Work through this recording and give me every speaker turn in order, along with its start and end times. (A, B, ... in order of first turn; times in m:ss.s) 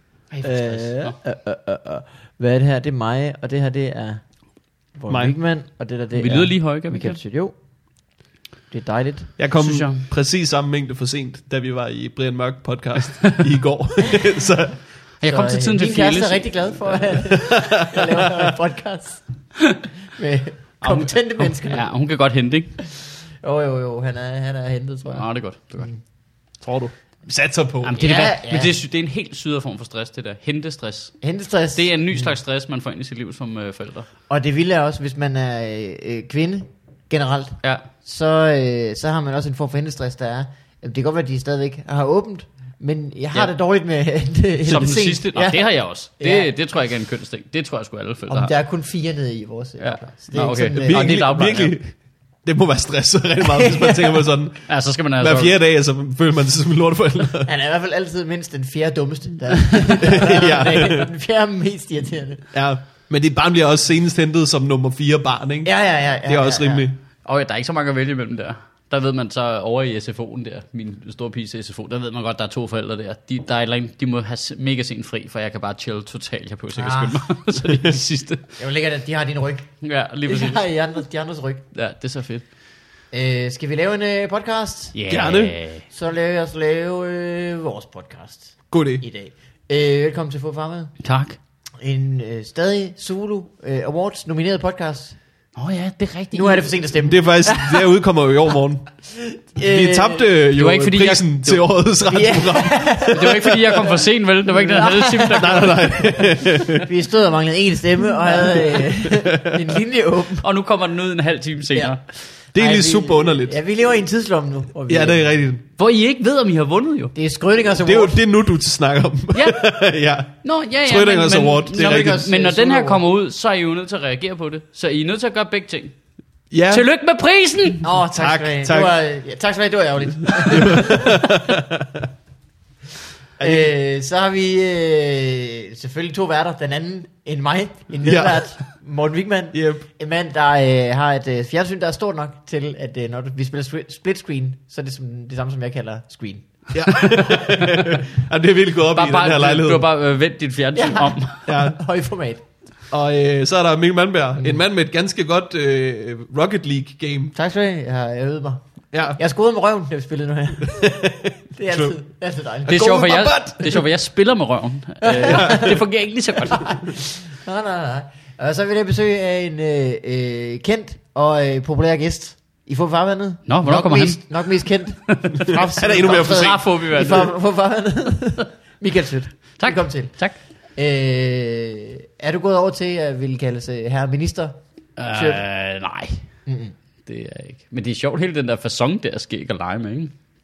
0:00.3-0:01.2 A
0:00.4-0:04.2 B
0:05.0-0:07.5 B
0:05.1-0:05.3 C
0:06.1-0:07.2 A
0:08.7-0:09.3 B
0:09.4-0:14.8 C
0:09.6-0:10.0 A
0:15.2-0:17.2 A
0:15.2-0:19.2 B
0:17.5-0:18.4 C
0:20.2-0:21.9 B
0:20.8-0:22.7 A
0:23.0-0:25.3 B
0:25.1-0:26.0 A
0:26.5-0:26.9 A
0:27.3-0:28.0 C
0:27.8-0:31.2 A
0:28.0-0:28.8 B
0:31.2-0:32.4 B
0:31.7-0:34.1 A
0:34.3-0:46.5 B
0:37.6-0:37.9 A
0:44.6-0:48.5 A
0:48.3-0:51.2 B
0:49.8-0:51.7 A
0:50.7-0:57.5 C
0:53.4-0:54.2 B
0:54.7-0:55.5 A
0:57.5-1:02.5 B
1:00.0-1:01.1 C
1:02.5-1:05.7 C
1:05.6-1:06.9 B
1:06.2-1:07.0 C
1:07.2-1:18.4 A
1:16.8-1:17.2 B
1:18.6-1:19.7 B
1:19.8-1:20.6 A
1:20.3-1:21.6 B
1:21.7-1:22.4 A
1:23.1-1:25.0 B
1:24.9-1:25.8 A
1:25.1-1:25.6 C
1:25.9-1:30.9 B
1:28.7-1:29.0 C
1:31.0-1:31.4 A
1:31.8-1:35.2 B
1:35.5-1:36.8 A
1:36.3-1:37.9 B
1:37.0-1:38.9 C
1:39.1-1:40.3 B
1:39.6-1:43.4 C
1:40.5-1:41.6 A
1:42.1-1:50.4 B
1:43.1-1:45.9 A
1:45.4-1:46.9 C
1:48.8-1:49.7 C
1:50.4-1:52.0 A
1:52.5-1:53.6 C
1:52.5-1:55.3 B
1:54.9-1:55.6 C
1:55.8-1:57.1 A
1:57.1-1:58.2 B
1:57.8-2:02.2 C
1:59.3-1:59.8 A
2:00.4-2:06.0 A
2:01.8-2:03.0 B
2:06.5-2:06.8 C
2:06.7-2:07.8 A
2:07.8-2:11.2 B
2:08.2-2:08.9 C
2:10.3-2:12.1 C
2:13.4-2:26.5 B
2:18.0-2:18.6 C
2:19.5-2:19.8 C
2:26.7-2:29.8 C
2:27.1-2:27.7 A
2:28.9-2:31.5 A
2:30.8-2:32.4 B
2:31.5-2:31.8 C
2:32.9-2:37.3 C
2:37.3-2:38.6 B
2:38.9-2:39.2 C
2:39.2-2:41.0 B
2:40.6-2:41.9 C
2:41.6-2:42.9 B
2:42.6-2:43.8 C
2:42.7-2:46.8 A
2:45.0-2:45.8 B
2:45.2-2:45.8 C
2:46.5-3:00.2 B
2:53.5-2:54.2 A
2:55.0-2:57.3 A
2:55.5-2:56.7 C
2:59.6-3:00.4 A
3:00.8-3:04.6 B
3:05.0-3:06.2 A
3:05.1-3:05.4 B
3:06.4-3:06.7 B
3:07.0-3:10.1 A